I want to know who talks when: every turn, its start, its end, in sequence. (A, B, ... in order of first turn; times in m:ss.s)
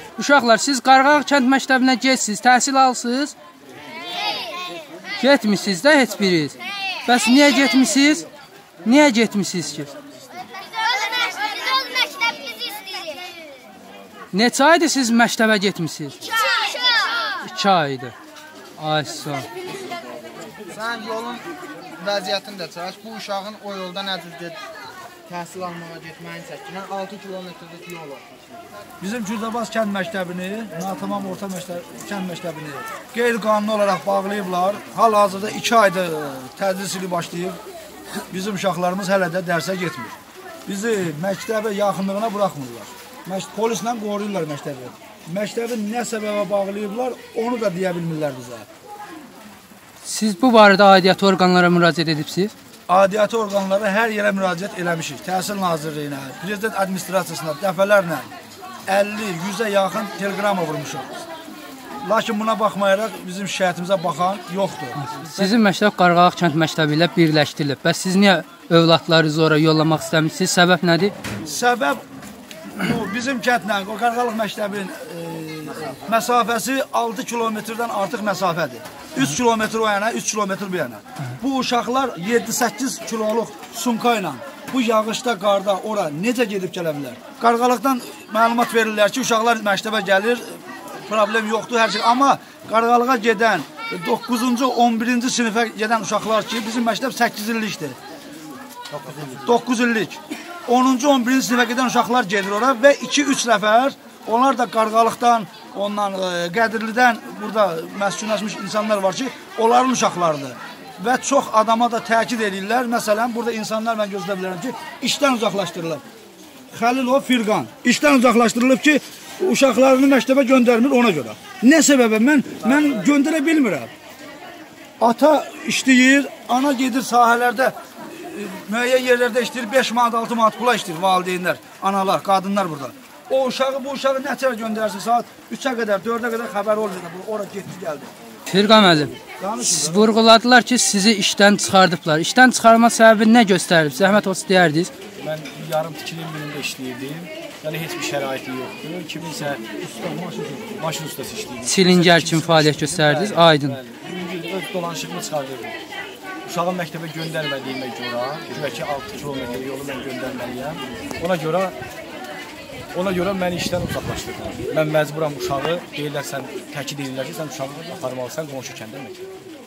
0:00.2-0:03.4 A
0:05.2-0:08.3 A
0:08.8-0:09.9 A
0:14.3-0:16.2 A
0:17.3-0:18.1 A
0:18.8-0:19.5 A
0:20.7-0:24.6 B
0:25.3-0:28.3 B
0:29.0-0:37.6 C
0:38.3-0:40.2 C
0:40.7-0:48.7 C
0:50.0-0:52.5 A
0:52.9-0:58.3 C
0:58.9-1:01.1 C
1:02.0-1:05.5 C
1:05.0-1:11.1 A
1:11.4-1:12.0 C
1:12.7-1:38.0 C
1:38.9-1:39.5 D
1:39.4-1:56.0 C
1:56.7-2:03.9 C
2:05.0-2:18.1 C
2:18.5-2:24.9 A
2:19.2-2:20.1 C
2:25.2-2:35.8 D
2:30.0-2:30.6 C
2:31.6-2:33.8 A
2:36.5-2:41.8 D
2:42.9-2:49.2 D